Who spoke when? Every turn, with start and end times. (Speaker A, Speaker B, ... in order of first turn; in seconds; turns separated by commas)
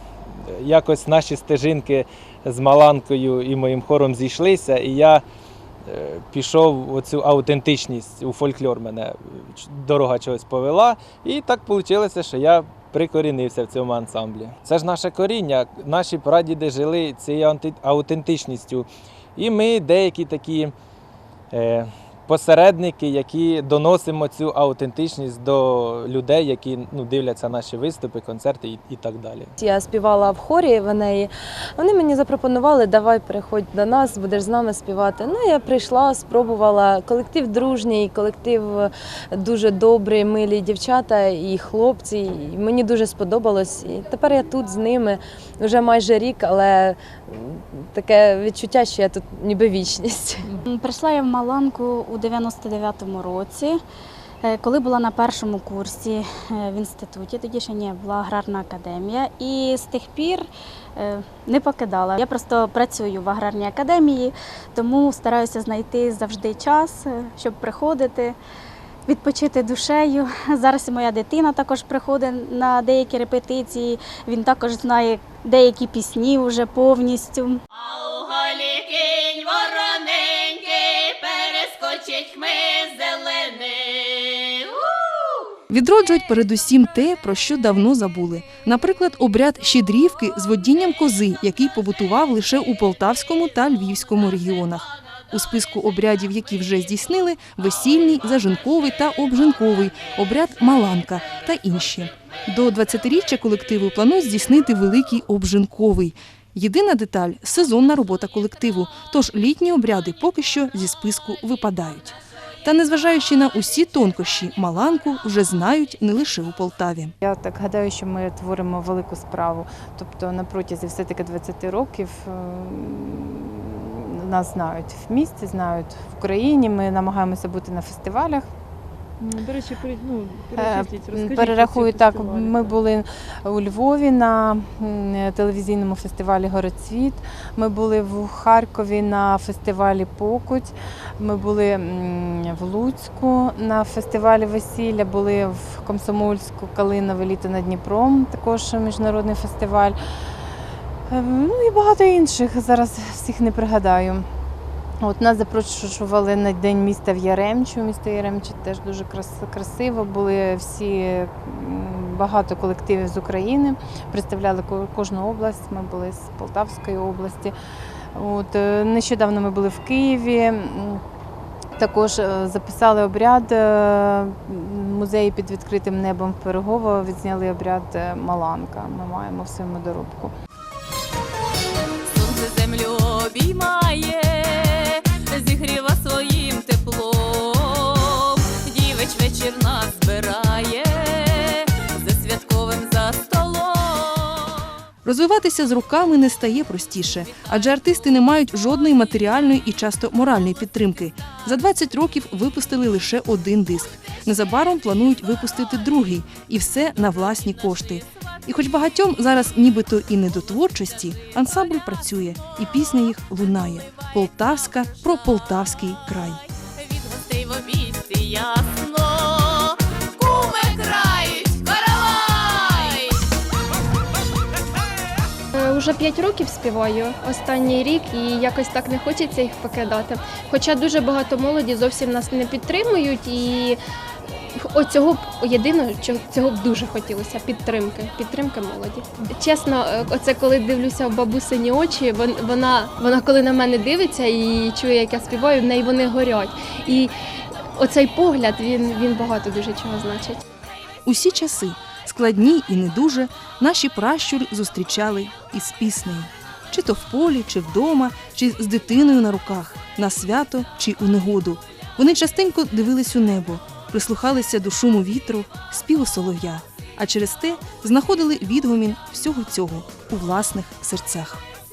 Speaker A: 0.5-5.2, Speaker A: 5.9-20.7, Speaker A: 21.5-29.5, Speaker B: 29.6-50.5, Speaker C: 50.7-53.8, Speaker C: 54.4-68.4, Speaker C: 69.1-77.6, Speaker D: 77.8-85.4, Speaker E: 85.7-117.1, Speaker F: 117.2-128.5, Speaker G: 129.2-132.8, Speaker F: 130.6-150.0, Speaker F: 151.1-154.3, Speaker F: 155.0-167.5, Speaker F: 168.2-171.0, Speaker F: 171.8-180.3, Speaker D: 182.1-194.6, Speaker E: 195.1-216.4, Speaker D: 216.9-223.2, Speaker G: 225.6-233.8, Speaker G: 234.6-247.1, Speaker G: 247.8-250.4, Speaker E: 251.1-271.4